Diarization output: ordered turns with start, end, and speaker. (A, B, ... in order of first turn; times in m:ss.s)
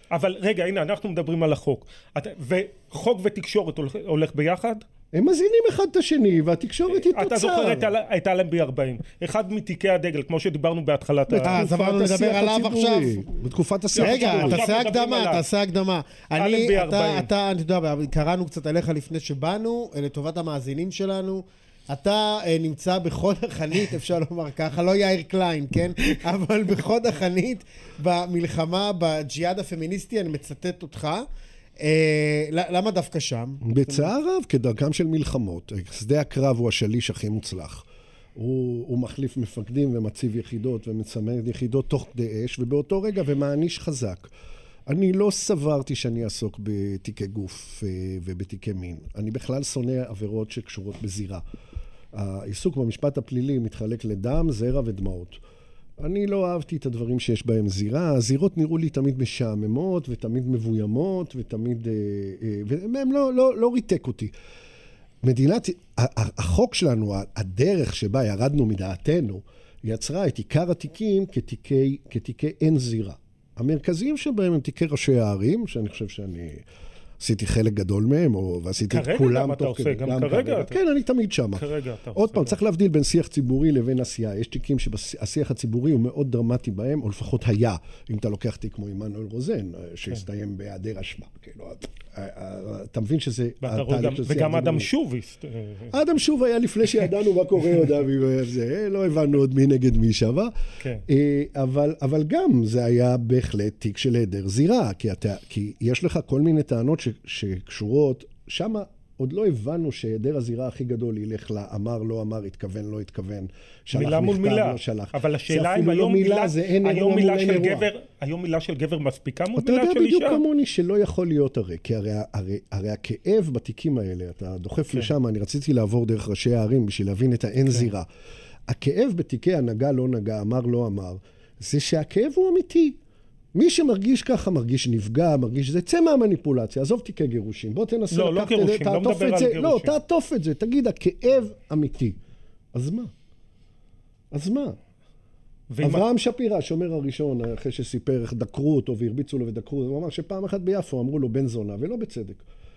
0:00.1-0:04.8 A
0:05.1-0:07.9 B
0:06.9-0:11.6 A
0:11.3-0:14.6 B
0:11.4-0:13.2 C
0:13.9-0:15.4 A
0:14.0-0:31.2 C
0:16.4-0:17.3 A
0:31.8-0:34.1 C
0:33.6-0:44.3 B
0:44.8-0:51.4 B
0:52.1-0:55.4 B
0:56.0-1:04.3 B
1:05.2-1:16.6 B
1:17.2-1:34.9 B
1:18.9-1:20.8 A
1:21.5-1:22.6 A
1:33.6-1:35.9 A
1:35.9-1:40.5 B
1:41.1-1:57.9 B
1:53.9-2:00.4 A
1:59.6-2:08.0 B
2:08.7-2:13.0 B
2:13.5-2:22.2 B
2:18.1-2:20.0 A
2:22.7-2:23.1 B
2:24.3-2:24.8 B
2:25.7-2:26.1 A
2:25.8-2:32.4 B